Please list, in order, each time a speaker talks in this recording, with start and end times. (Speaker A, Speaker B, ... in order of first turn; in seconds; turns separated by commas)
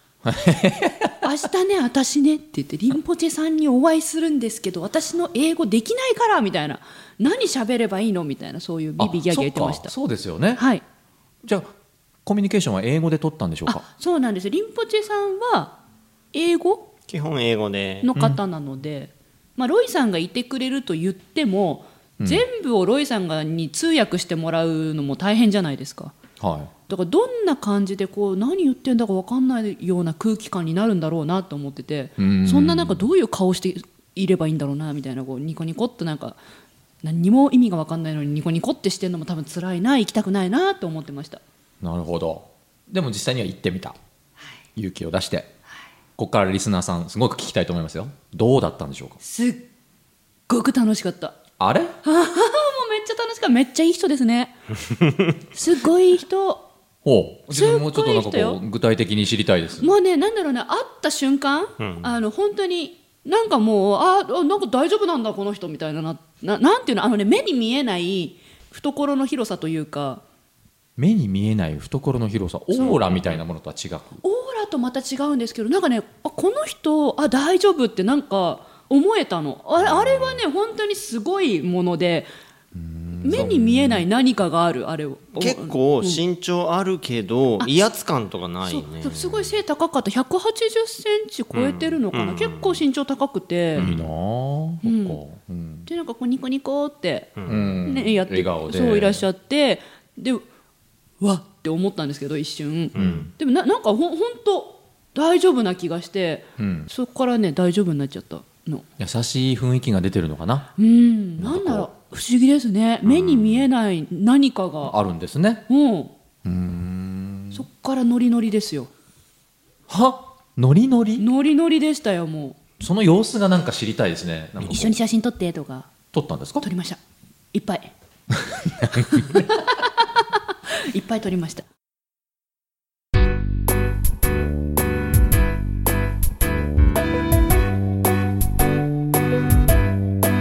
Speaker A: 0.2-1.2, Speaker B: 1.2-9.9, Speaker A: 9.0-10.6, Speaker B: 10.6-10.8, Speaker A: 11.4-11.7, Speaker A: 12.2-13.8, Speaker B: 13.7-15.8, Speaker B: 16.3-16.9, Speaker C: 17.1-18.1, Speaker B: 18.0-26.1, Speaker A: 22.2-22.4, Speaker A: 26.4-26.7, Speaker B: 26.9-36.4, Speaker A: 32.2-33.1, Speaker B: 37.0-41.4, Speaker A: 41.8-44.0, Speaker A: 44.8-45.5, Speaker A: 46.2-49.2, Speaker B: 49.2-49.6, Speaker B: 50.5-51.4, Speaker A: 51.6-52.0, Speaker B: 52.0-54.5, Speaker B: 55.5-56.7, Speaker A: 57.0-59.9, Speaker B: 57.5-58.6, Speaker B: 59.8-70.2, Speaker C: 61.8-62.1, Speaker A: 71.0-74.2, Speaker C: 72.8-73.4, Speaker B: 74.2-82.3, Speaker A: 82.7-84.0, Speaker B: 83.2-86.2, Speaker C: 85.3-89.5, Speaker B: 88.6-93.9, Speaker C: 91.5-92.8, Speaker A: 93.8-95.9, Speaker C: 93.8-94.1, Speaker B: 94.8-95.2, Speaker B: 95.8-97.3, Speaker C: 97.4-97.8, Speaker A: 97.5-99.2, Speaker B: 97.8-100.4, Speaker B: 101.2-108.8, Speaker C: 102.9-103.3, Speaker A: 102.9-103.3, Speaker A: 106.6-106.9, Speaker A: 109.0-110.7, Speaker B: 110.8-114.9, Speaker A: 111.4-111.9, Speaker A: 113.0-113.7, Speaker A: 114.8-115.6, Speaker B: 115.7-116.1, Speaker A: 116.4-117.6, Speaker B: 117.5-118.9, Speaker A: 119.9-121.2, Speaker B: 121.2-122.6, Speaker A: 122.8-124.9, Speaker B: 124.6-125.9, Speaker A: 126.1-126.7, Speaker B: 126.6-127.0, Speaker B: 127.5-127.9, Speaker A: 128.3-129.3, Speaker B: 129.1-131.6